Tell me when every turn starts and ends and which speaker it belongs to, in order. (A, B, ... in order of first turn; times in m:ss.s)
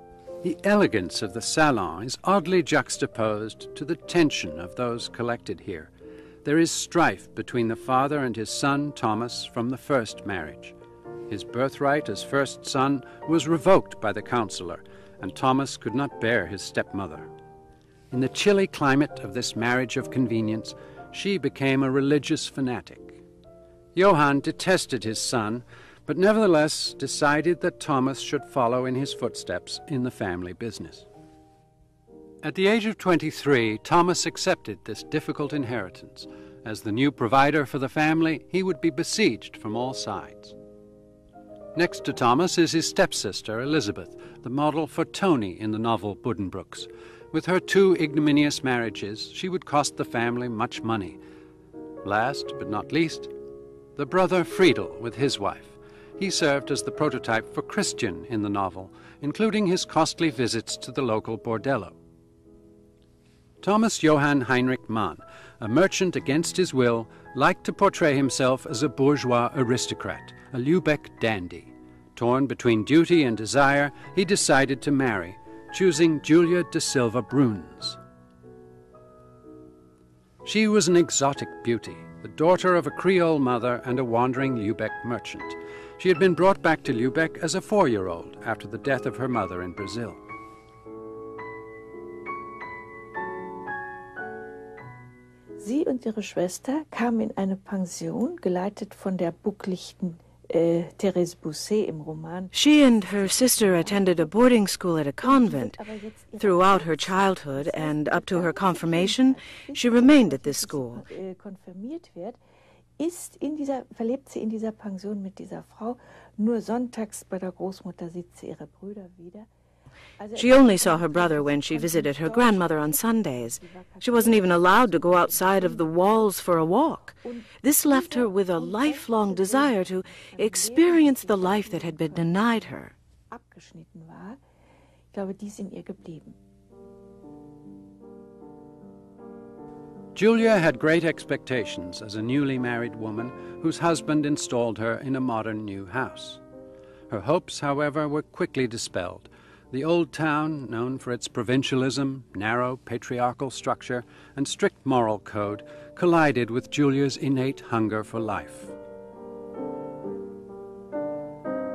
0:00.4-0:05.9 A
0:06.4-0:10.8 A
0:11.3-0:17.3 A
0:18.1-0:23.2 A
0:24.0-0:31.1 A
0:32.4-0:40.6 A
0:41.8-0:51.2 A
0:52.0-0:53.3 A
0:54.0-1:02.0 A
1:03.6-1:18.0 A
1:20.4-1:30.2 A
1:35.6-1:44.7 B
1:42.5-1:45.8 C
1:45.2-1:52.4 B
1:46.4-1:51.1 C
1:53.0-1:59.5 B
2:00.2-2:06.2 B
2:00.4-2:12.9 C
2:07.1-2:12.7 B
2:13.3-2:14.4 B
2:15.1-2:16.4 B
2:20.2-2:26.4 A
2:27.1-2:38.8 A